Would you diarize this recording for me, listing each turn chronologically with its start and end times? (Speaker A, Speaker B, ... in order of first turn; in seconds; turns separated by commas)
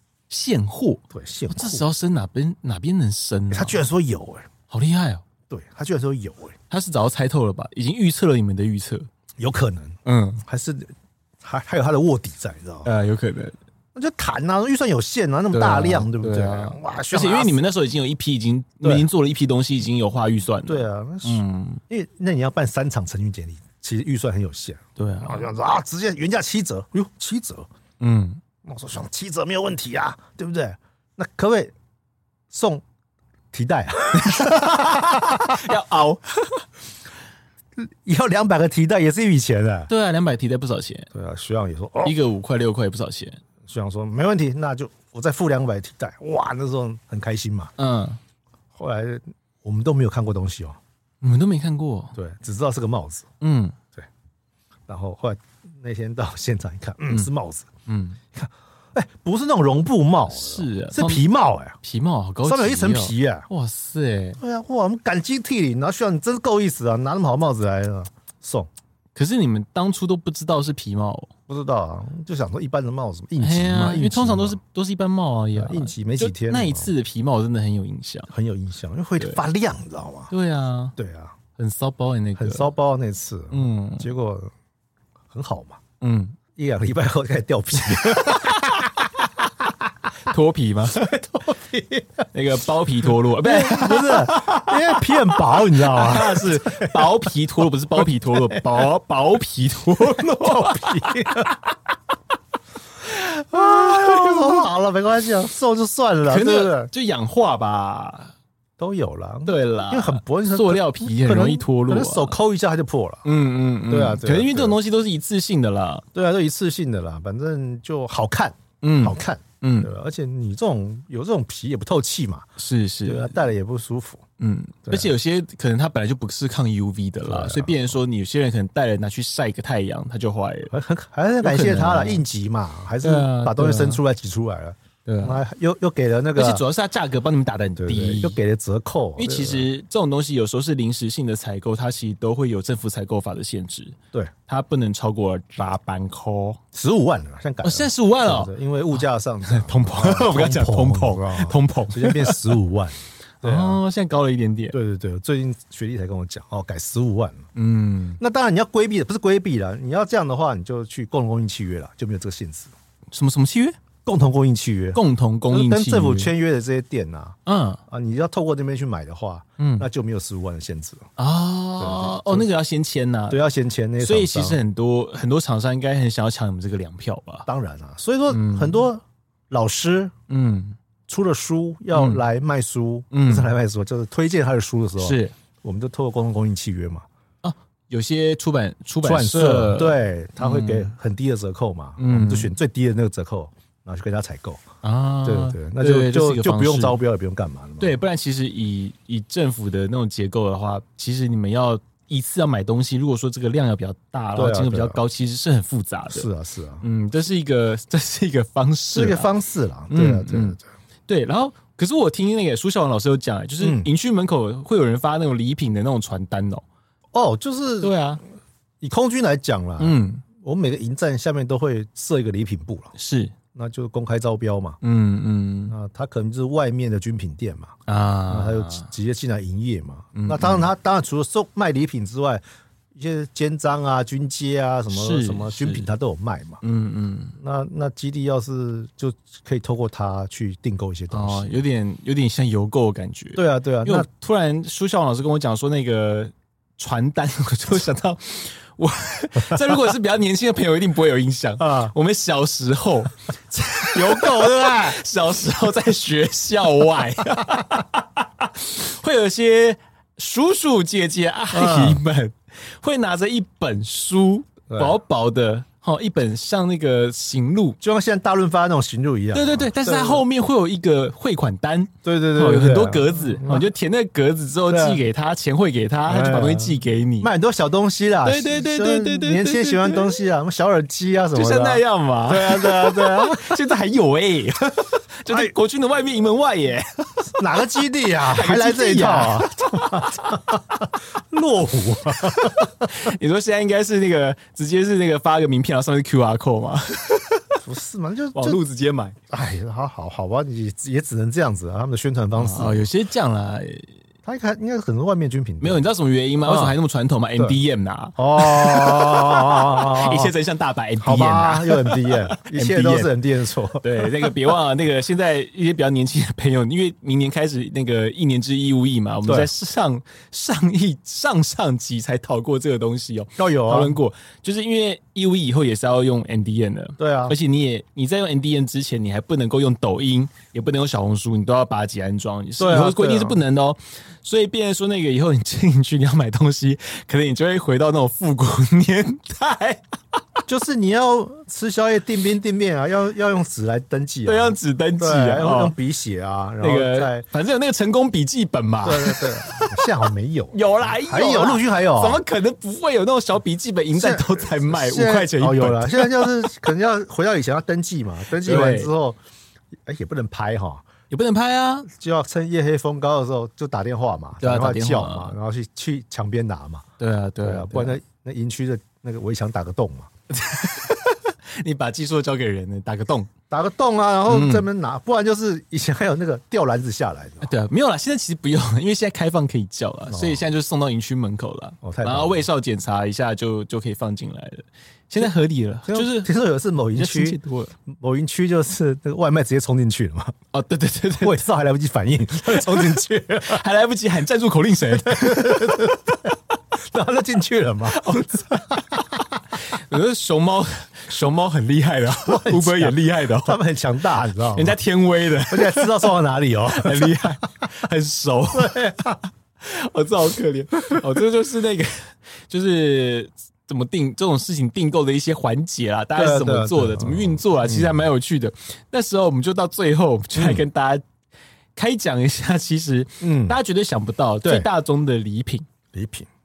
Speaker A: 0.3-3.8, Speaker B: 1.1-1.9, Speaker B: 3.5-4.5, Speaker A: 4.7-5.2, Speaker B: 5.5-6.5, Speaker A: 6.7-9.1, Speaker B: 9.4-12.9, Speaker A: 10.0-10.4, Speaker A: 12.8-13.6, Speaker B: 13.9-17.6, Speaker A: 15.5-21.8, Speaker B: 20.6-27.7, Speaker A: 25.0-25.5, Speaker A: 28.0-28.4, Speaker B: 28.6-31.7, Speaker B: 32.5-32.8, Speaker B: 33.5-35.7, Speaker A: 34.1-36.6, Speaker B: 37.8-39.9, Speaker A: 39.9-41.1, Speaker B: 41.1-42.1, Speaker A: 42.0-43.4, Speaker B: 43.6-47.7, Speaker A: 47.8-48.2, Speaker B: 48.7-50.8, Speaker A: 51.2-52.1, Speaker B: 52.1-53.3, Speaker A: 53.4-53.8, Speaker B: 54.9-57.7, Speaker A: 57.9-58.2, Speaker B: 58.3-61.8, Speaker A: 60.3-61.2, Speaker A: 61.8-64.4, Speaker B: 62.4-63.5, Speaker B: 64.4-68.7, Speaker A: 69.1-71.3, Speaker B: 71.5-74.6, Speaker A: 73.4-78.3, Speaker B: 75.5-76.9, Speaker B: 78.3-80.3, Speaker A: 80.3-80.9, Speaker B: 81.0-81.4, Speaker A: 81.6-82.7, Speaker B: 82.4-84.5, Speaker A: 83.5-84.1, Speaker B: 85.3-85.8, Speaker A: 86.0-86.4, Speaker B: 86.5-89.7, Speaker A: 87.8-88.8, Speaker A: 90.2-91.1, Speaker B: 90.9-92.3, Speaker A: 92.3-101.6, Speaker B: 93.1-97.3, Speaker B: 98.0-98.9, Speaker B: 100.0-101.6, Speaker A: 103.1-104.7, Speaker B: 103.5-106.9, Speaker A: 106.2-108.3, Speaker B: 108.8-113.3, Speaker A: 109.5-112.4, Speaker A: 113.2-116.0, Speaker B: 113.9-114.8, Speaker B: 116.1-122.5, Speaker A: 118.8-119.9, Speaker A: 122.6-123.4, Speaker B: 123.0-124.2, Speaker A: 124.4-130.7, Speaker B: 127.2-127.9, Speaker B: 130.7-136.6, Speaker A: 131.4-132.2, Speaker A: 133.0-134.0, Speaker A: 135.0-135.4, Speaker A: 136.3-138.4, Speaker B: 137.8-139.7, Speaker A: 139.2-146.6, Speaker B: 146.7-153.8, Speaker A: 147.6-152.6, Speaker A: 153.4-154.8, Speaker B: 154.7-157.5, Speaker A: 157.5-158.2, Speaker B: 158.2-162.7, Speaker A: 163.1-163.8, Speaker B: 164.1-167.4, Speaker A: 164.9-166.3, Speaker A: 167.4-167.8, Speaker B: 167.9-171.1, Speaker A: 169.6-169.9, Speaker A: 171.2-173.4, Speaker B: 171.8-172.5, Speaker B: 173.3-174.6, Speaker A: 174.0-177.5, Speaker B: 177.4-180.1, Speaker A: 178.3-178.9, Speaker A: 180.3-180.8, Speaker B: 181.1-187.0, Speaker A: 181.9-182.2, Speaker A: 183.1-183.5, Speaker A: 185.0-185.3, Speaker A: 187.4-190.9, Speaker B: 189.0-194.7, Speaker A: 192.0-192.5, Speaker A: 194.8-197.0, Speaker B: 195.2-198.0, Speaker A: 197.8-206.3, Speaker B: 204.3-205.0, Speaker B: 206.1-206.8, Speaker A: 206.8-209.3, Speaker B: 208.9-210.7, Speaker A: 209.9-210.6, Speaker A: 211.1-216.6, Speaker B: 213.6-213.9, Speaker B: 217.1-217.9, Speaker A: 217.8-218.2, Speaker B: 218.8-222.9, Speaker A: 219.8-220.2, Speaker A: 222.9-223.3, Speaker B: 223.5-224.8, Speaker A: 224.8-225.7, Speaker B: 225.7-227.8, Speaker A: 227.9-228.9, Speaker B: 228.3-232.4, Speaker A: 230.1-230.7, Speaker B: 232.9-236.6, Speaker A: 234.9-235.9, Speaker A: 236.6-237.4, Speaker B: 237.4-241.6, Speaker A: 241.1-267.8, Speaker B: 243.3-244.1, Speaker B: 251.6-251.9, Speaker B: 253.9-255.0, Speaker B: 261.5-262.0, Speaker B: 264.7-265.0, Speaker B: 267.8-270.2, Speaker A: 269.3-277.3, Speaker B: 272.0-273.7, Speaker B: 274.7-275.0, Speaker B: 276.1-283.6, Speaker A: 278.2-280.1, Speaker A: 281.3-287.4, Speaker B: 287.3-293.1, Speaker A: 288.2-290.4, Speaker A: 292.2-297.6, Speaker B: 297.6-298.6, Speaker A: 298.3-299.2, Speaker B: 299.3-302.9, Speaker A: 302.4-303.9, Speaker B: 304.2-305.8, Speaker A: 305.6-313.1, Speaker B: 306.4-306.8, Speaker B: 308.2-310.3, Speaker B: 311.0-314.3, Speaker A: 313.8-340.2, Speaker B: 319.2-319.5, Speaker B: 323.4-324.0, Speaker B: 327.0-327.4, Speaker B: 332.6-333.4, Speaker B: 340.5-347.2, Speaker A: 344.2-345.7, Speaker A: 346.6-350.0, Speaker B: 348.8-352.2, Speaker A: 350.5-356.5, Speaker B: 353.9-359.2, Speaker A: 358.4-358.9, Speaker B: 359.8-360.9, Speaker A: 361.1-361.9, Speaker B: 361.9-366.9, Speaker A: 364.4-365.4, Speaker A: 367.0-368.0, Speaker B: 367.4-370.1, Speaker A: 370.3-373.3, Speaker B: 373.5-377.5, Speaker A: 374.3-374.6, Speaker A: 377.4-386.3, Speaker B: 380.1-380.4, Speaker B: 381.8-382.4, Speaker B: 385.9-390.3, Speaker A: 386.9-387.7, Speaker A: 390.5-391.4, Speaker B: 391.2-393.6, Speaker A: 392.5-396.2, Speaker B: 395.0-396.1, Speaker B: 396.8-399.3, Speaker A: 397.9-398.9, Speaker A: 399.5-403.6, Speaker B: 402.1-404.8, Speaker A: 404.5-406.1, Speaker B: 405.5-407.3, Speaker A: 406.7-421.0, Speaker B: 408.5-409.2, Speaker B: 416.1-418.0, Speaker B: 420.4-420.6, Speaker A: 421.7-425.7, Speaker B: 423.2-423.6, Speaker B: 425.9-426.3